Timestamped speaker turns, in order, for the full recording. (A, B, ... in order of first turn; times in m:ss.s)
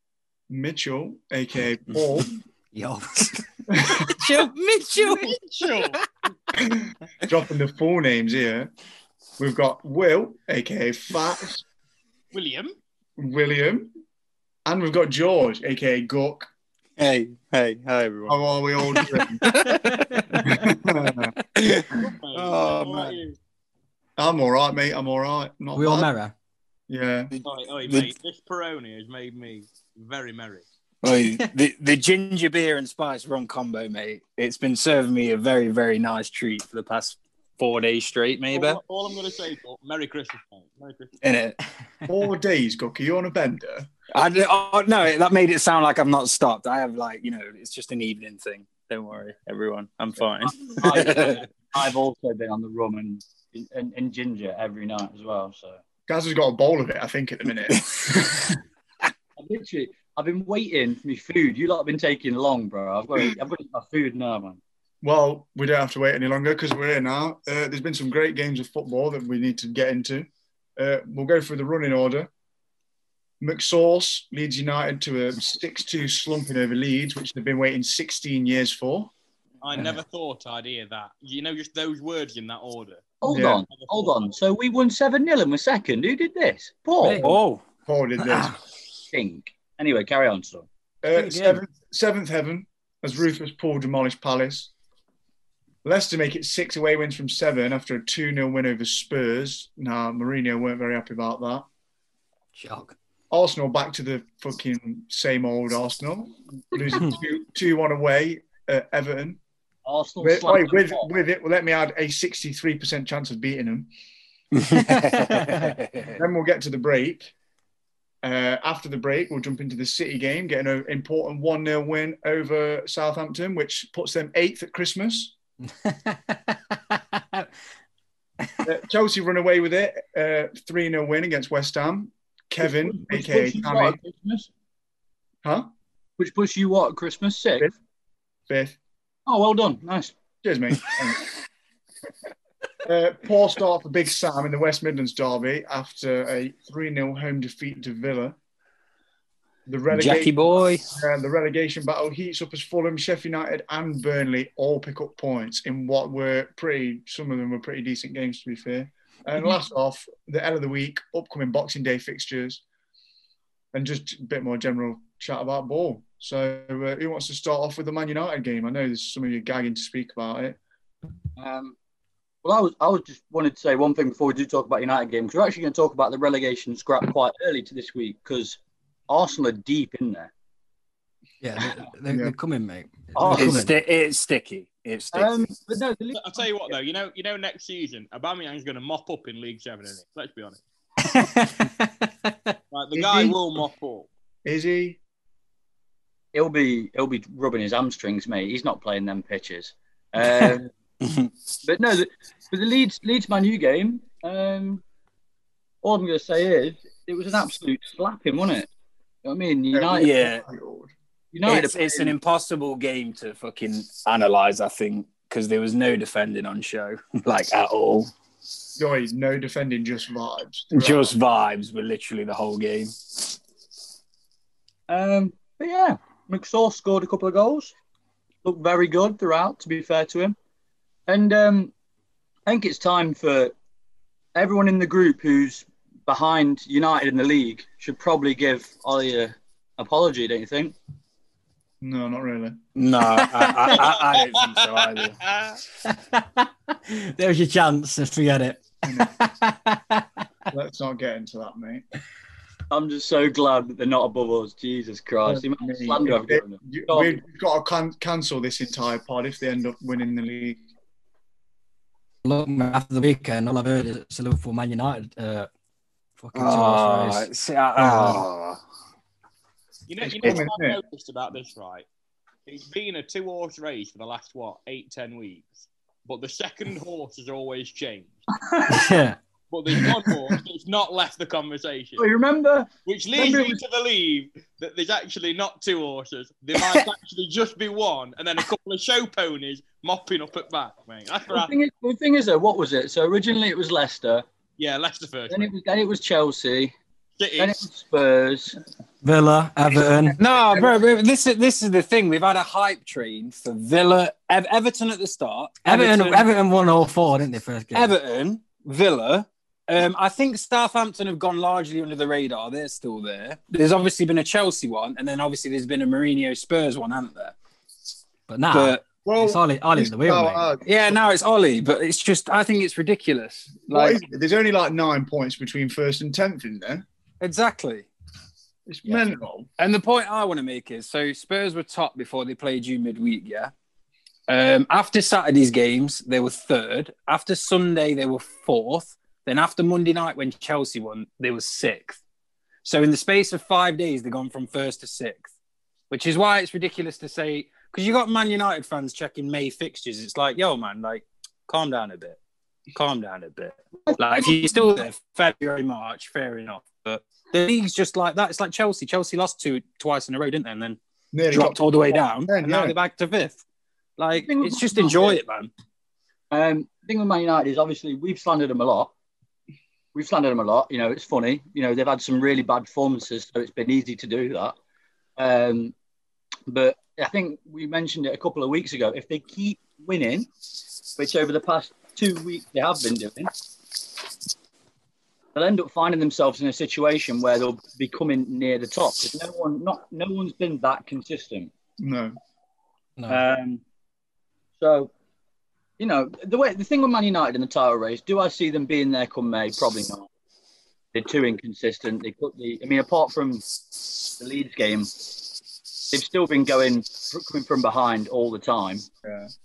0:00.5-0:02.3 A
0:01.9-0:02.2 B
0:02.7-0:05.3 C
0:03.7-0:04.1 A
0:04.2-0:05.2 B
0:05.0-0:06.0 D
0:06.7-0:08.7 A
0:09.4-0:11.6 A
0:12.3-0:12.8 D
0:13.2-0:13.9 A
0:14.6-0:16.5 A
0:17.0-0:20.0 B
0:18.3-0:19.4 A
0:19.5-0:20.7 C
0:20.4-0:21.3 A
0:21.5-0:23.2 B
0:22.0-0:23.4 D
0:24.2-0:26.1 A
0:25.7-0:26.3 C
0:26.9-0:27.3 A
0:27.3-0:28.1 B
0:27.4-0:30.6 D
0:31.0-0:38.8 B
0:38.5-0:41.1 D
0:41.2-0:41.6 B
0:42.1-0:43.9 A
0:44.1-0:51.5 B
0:50.4-0:55.8 E
0:56.1-0:57.8 A
0:57.7-0:58.6 B
0:59.4-1:04.6 E
1:05.0-1:12.3 A
1:13.4-1:19.1 A
1:19.6-1:23.0 D
1:23.2-1:27.2 E
1:23.3-1:23.6 A
1:23.7-1:24.3 D
1:27.2-1:28.5 A
1:27.2-1:27.6 B
1:28.3-1:28.5 C
1:29.1-1:30.7 E
1:31.0-1:34.7 A
1:31.2-1:31.6 C
1:35.8-1:41.6 A
1:42.5-1:42.9 C
1:43.3-1:49.4 A
1:49.8-1:51.1 E
1:50.2-1:53.9 A
1:54.5-1:56.2 B
1:54.8-1:55.7 C
1:56.1-1:57.3 A
1:58.2-2:05.3 A
2:05.8-2:07.5 C
2:08.6-2:14.0 A
2:12.6-2:14.5 E
2:15.4-2:15.7 A
2:16.2-2:17.7 E
2:18.5-2:18.8 A
2:19.3-2:20.1 E
2:20.4-2:21.3 A
2:22.8-2:28.4 A
2:29.7-2:42.6 A
2:29.9-2:30.8 B
2:43.7-2:50.6 A
2:51.4-2:51.8 E
2:52.4-2:58.6 E
2:59.1-3:00.3 E
3:01.4-3:03.7 C
3:03.1-3:03.6 E
3:03.3-3:05.5 B
3:05.1-3:06.7 E
3:06.1-3:10.6 D
3:11.0-3:12.5 C
3:12.7-3:14.1 D
3:12.9-3:13.4 A
3:14.4-3:15.0 A
3:16.3-3:20.7 E
3:20.2-3:21.3 B
3:21.6-3:24.8 E
3:25.8-3:28.7 E
3:29.2-3:30.2 E
3:29.7-3:30.9 A
3:29.9-3:30.4 B
3:31.3-3:32.1 E
3:31.4-3:38.1 B
3:38.8-3:41.2 A
3:40.7-3:43.4 B
3:44.9-3:47.7 E
3:48.4-3:50.4 E
3:51.1-3:51.7 E
3:52.4-3:53.5 E
3:54.3-4:00.8 E
4:01.8-4:02.6 A
4:02.8-4:05.2 B
4:03.1-4:03.8 C
4:03.8-4:05.6 D
4:05.9-4:10.1 C
4:08.8-4:09.1 A
4:10.5-4:11.8 A
4:12.7-4:17.2 E
4:15.2-4:20.6 A
4:22.2-4:25.5 C
4:26.2-4:28.2 C
4:26.3-4:28.6 B
4:29.9-4:31.8 D
4:30.0-4:30.8 A
4:32.5-4:38.3 D
4:38.7-4:39.2 C
4:39.5-4:42.1 D
4:42.0-4:43.6 E
4:42.8-4:51.5 D
4:51.3-4:54.2 E
4:54.6-4:55.5 D
4:55.3-4:56.7 E
4:57.2-4:57.6 D
4:57.4-4:58.6 E
4:59.0-5:00.2 C
5:00.2-5:06.3 B
5:05.6-5:07.9 C
5:07.7-5:17.4 B
5:18.3-5:20.4 C
5:18.5-5:18.8 B
5:19.0-5:21.0 A
5:20.6-5:24.0 B
5:23.7-5:26.8 A
5:27.2-5:27.9 B
5:28.7-5:29.5 A
5:29.6-5:33.5 B
5:34.3-5:42.0 B
5:42.6-5:45.3 B
5:45.9-5:52.2 B
5:52.7-6:00.8 B
5:53.8-5:54.8 E
6:01.1-6:02.8 A
6:01.3-6:03.4 B
6:04.0-6:05.5 B
6:04.1-6:05.2 E
6:06.3-6:08.9 E
6:09.9-6:14.6 E
6:15.2-6:15.7 E
6:16.5-6:20.3 E
6:21.0-6:23.3 E
6:25.3-6:31.5 E
6:31.8-6:32.2 A
6:33.1-6:33.6 E
6:34.6-6:34.9 E
6:35.8-6:40.1 E
6:40.9-6:43.4 E
6:44.1-6:45.1 E
6:45.9-6:48.9 E
6:49.0-6:49.3 A